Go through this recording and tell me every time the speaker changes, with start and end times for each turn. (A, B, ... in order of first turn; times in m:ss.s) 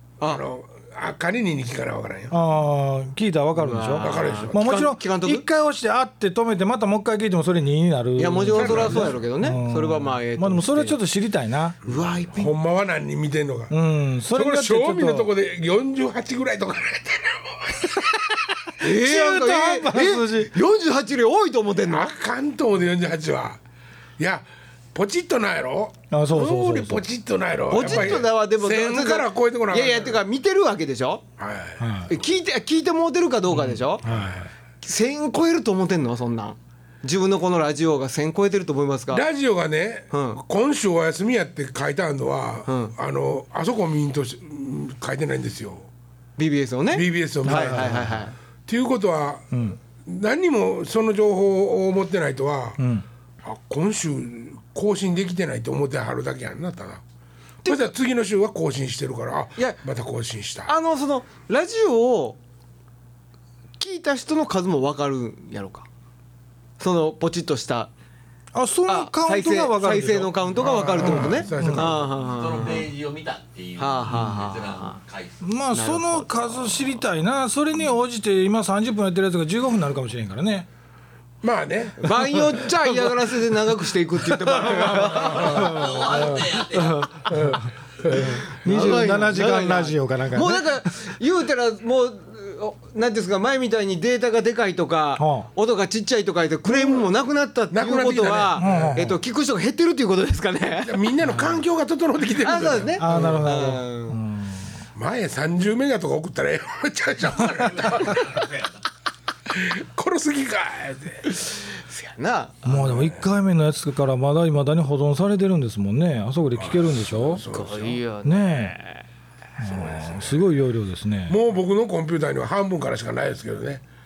0:00.3-0:02.4 A
0:02.3-0:11.8 B
0:03.5-0:05.4 C
0:04.0-0:04.7 A
0:08.2-0:11.0 C
0:08.5-0:09.2 A
0:11.8-0:12.5 C
0:11.9-0:13.7 A
0:13.7-0:15.3 B
0:14.3-0:18.5 A
0:18.8-0:22.1 C
0:18.8-0:20.5 B
0:21.9-0:23.6 A
0:24.2-0:30.2 A
0:26.1-0:27.0 B
0:27.7-0:31.2 C
0:27.8-0:28.2 B
0:31.4-0:31.9 A
0:31.8-0:32.1 B
0:32.1-0:34.0 C
0:33.6-0:34.5 B
0:34.0-0:34.4 A
0:34.8-0:39.2 C
0:39.1-0:45.9 A
0:40.1-0:40.4 C
0:42.6-0:42.9 C
0:46.4-0:48.4 C
0:46.9-0:48.1 A
0:47.4-0:48.2 B
0:48.6-0:52.8 A
0:49.5-0:49.8 B
0:52.8-0:53.0 B
0:53.4-0:57.0 A
0:57.6-1:00.7 A
1:00.7-1:02.4 C
1:03.8-1:05.9 C
1:06.8-1:07.9 C
1:08.5-1:10.3 B
1:08.9-1:12.9 C
1:10.5-1:12.0 A
1:11.0-1:11.8 B
1:12.0-1:15.4 D
1:13.8-1:15.0 C
1:15.4-1:20.7 B
1:15.7-1:16.7 C
1:21.4-1:22.0 A
1:22.0-1:27.2 C
1:24.2-1:30.9 B
1:25.2-1:25.7 A
1:25.3-1:27.4 D
1:27.3-1:28.4 A
1:28.0-1:41.1 C
1:35.2-1:35.5 B
1:36.6-1:37.1 A
1:37.7-1:39.0 A
1:38.6-1:39.2 B
1:40.8-1:43.3 A
1:41.2-1:41.5 B
1:42.4-1:44.2 C
1:43.0-1:44.8 B
1:44.9-1:48.5 A
1:47.7-1:48.8 D
1:49.5-1:51.4 A
1:51.5-1:53.1 C
1:52.6-1:57.4 B
1:56.6-1:58.0 A
1:57.4-1:59.0 C
1:58.2-1:58.8 B
1:59.6-2:01.4 B
1:59.6-2:00.5 A
2:01.3-2:03.8 A